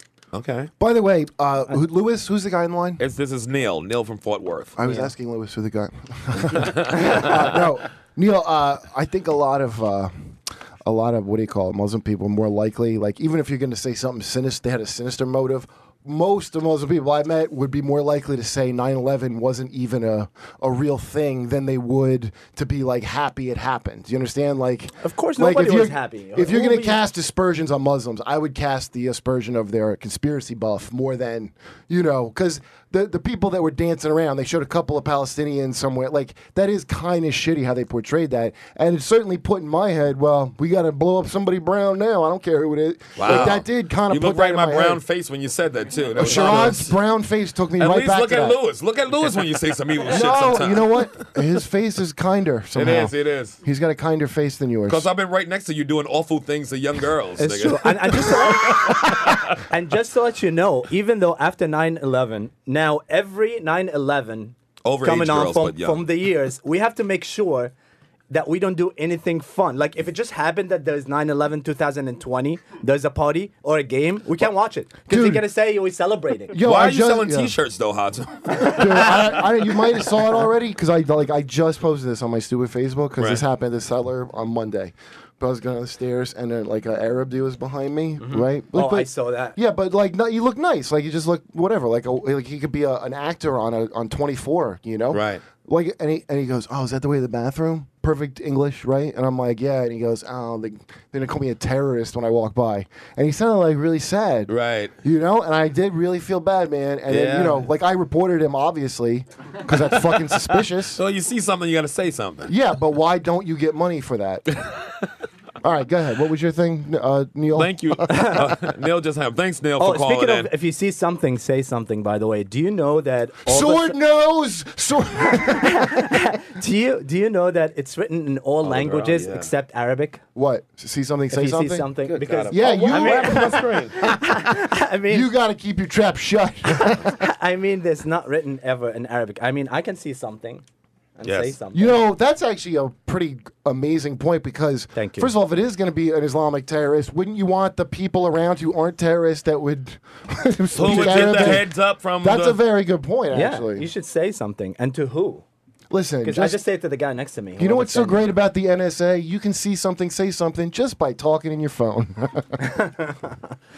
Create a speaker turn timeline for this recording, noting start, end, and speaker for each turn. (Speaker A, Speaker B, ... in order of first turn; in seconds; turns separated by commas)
Speaker A: 0.3-0.7, Speaker B: 0.8-3.0, Speaker A: 3.0-4.8, Speaker B: 4.8-10.1, Speaker C: 4.8-5.1, Speaker A: 6.5-7.5, Speaker B: 10.8-45.0, Speaker C: 25.0-27.0, Speaker A: 43.1-47.0, Speaker B: 46.2-48.6, Speaker A: 47.8-51.2, Speaker B: 50.1-55.1, Speaker A: 52.7-53.6, Speaker A: 54.9-59.6, Speaker C: 57.4-67.7, Speaker A: 64.8-66.0, Speaker C: 68.3-76.5, Speaker B: 75.1-75.4, Speaker B: 76.5-77.5, Speaker A: 76.6-79.5, Speaker B: 78.7-104.5, Speaker A: 83.2-83.4, Speaker C: 88.2-89.6, Speaker A: 95.1-95.4, Speaker A: 104.5-104.9, Speaker B: 105.0-111.0, Speaker A: 107.1-107.7, Speaker A: 110.1-112.5, Speaker B: 112.5-114.5, Speaker B: 115.6-118.5, Speaker A: 117.5-120.5, Speaker C: 118.1-118.4, Speaker C: 119.8-124.0, Speaker B: 123.5-125.9, Speaker C: 125.5-130.2, Speaker A: 128.6-129.5, Speaker B: 130.3-131.9, Speaker C: 131.3-135.3, Speaker A: 132.0-134.0, Speaker B: 132.5-134.0, Speaker B: 135.1-137.2, Speaker C: 136.8-140.6, Speaker C: 141.2-142.0, Speaker A: 141.2-141.6, Speaker B: 141.7-153.9, Speaker C: 144.9-145.3, Speaker A: 150.7-152.6, Speaker C: 150.9-151.5, Speaker C: 153.3-155.4, Speaker B: 155.9-156.6, Speaker C: 156.2-158.3, Speaker B: 157.6-162.5, Speaker C: 162.6-163.4